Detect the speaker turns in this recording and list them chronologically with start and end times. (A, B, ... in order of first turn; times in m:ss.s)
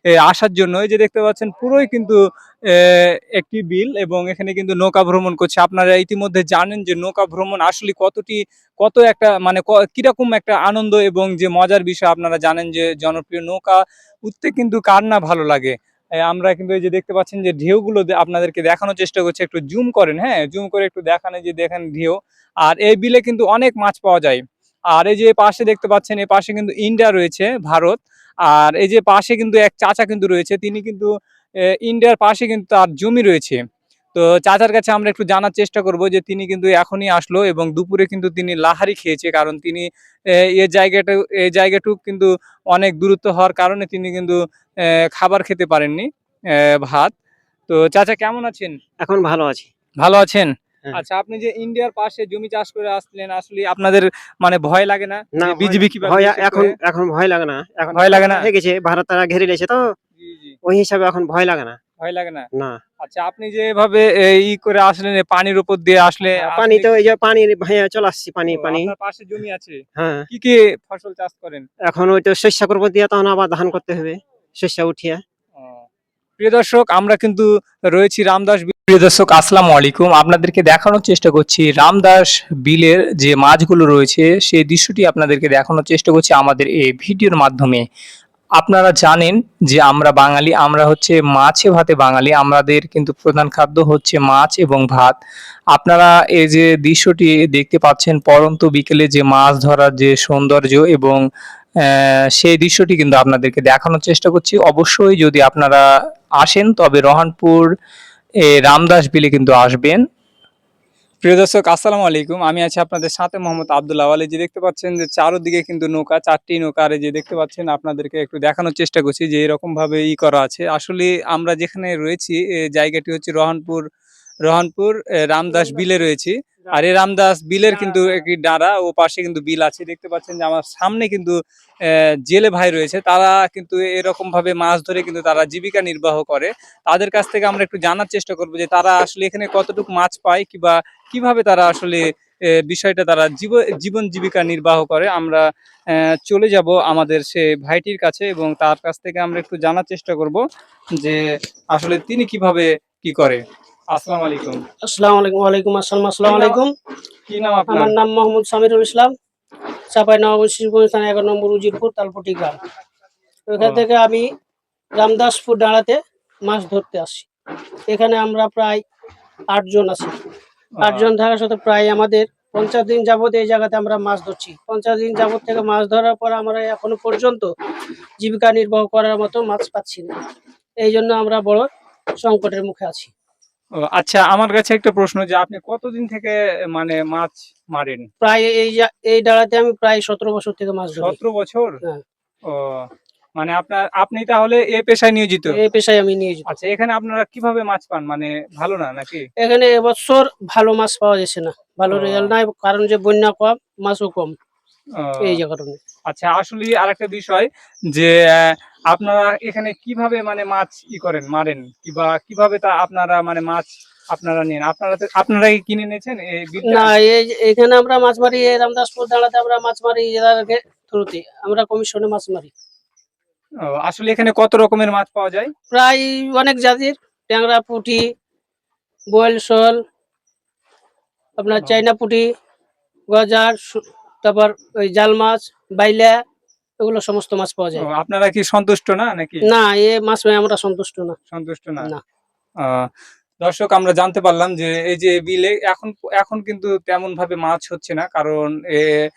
0:00.2-0:02.2 A
0:02.7-0:15.7 A
0:16.2-0:24.4 A
0:24.9-0:31.1 A
0:31.8-0:33.6 A
0:34.1-0:47.1 A
0:47.7-0:48.8 A
0:49.0-0:49.7 B
0:50.0-0:56.7 A
0:55.4-0:59.8 B
0:57.9-0:58.5 A
1:00.2-1:00.6 A
1:00.6-1:01.8 B
1:02.0-1:02.5 A
1:02.5-1:02.8 B
1:03.0-1:06.9 A
1:06.4-1:08.9 B
1:08.5-1:11.6 A
1:10.0-1:10.3 B
1:11.8-1:15.2 B
1:15.6-1:15.8 A
1:16.4-1:27.8 A
1:28.6-1:35.1 A
1:35.7-1:41.2 A
1:41.9-1:45.8 A
1:46.4-1:47.6 A
1:48.5-1:50.0 A
1:51.2-2:03.8 A
2:04.4-2:11.3 A
2:05.5-2:05.9 C
2:07.7-2:08.2 C
2:12.3-2:22.0 A
2:22.7-2:25.4 A
2:26.2-2:30.4 A
2:31.7-2:34.6 A
2:34.8-2:36.7 C
2:36.2-2:36.6 A
2:37.3-2:38.0 A
2:37.6-2:39.1 C
2:39.9-2:42.6 C
2:43.5-2:44.3 C
2:43.6-2:43.8 A
2:45.0-2:47.3 C
2:47.9-2:48.8 C
2:49.5-2:50.1 C
2:50.8-2:51.1 A
2:50.8-2:57.5 C
2:58.2-3:00.1 C
3:00.8-3:01.7 C
3:02.2-3:03.1 C
3:03.9-3:08.1 A
3:08.2-3:11.2 C
3:11.0-3:11.8 A
3:12.5-3:15.6 A
3:15.5-3:16.5 C
3:16.5-3:19.3 A
3:19.4-3:24.3 C
3:21.9-3:22.3 A
3:25.0-3:25.4 A
3:25.2-3:25.8 C
3:26.1-3:36.9 A
3:36.6-3:42.5 C
3:43.6-3:45.5 A
3:45.7-3:48.0 C
3:49.1-3:49.8 C
3:51.4-3:52.3 C
3:51.6-3:51.8 A
3:53.1-3:56.2 C
3:56.8-3:57.8 C
3:57.8-3:59.4 A
3:59.5-4:01.2 C
4:01.3-4:01.9 A
4:02.6-4:02.9 A
4:03.4-4:08.9 A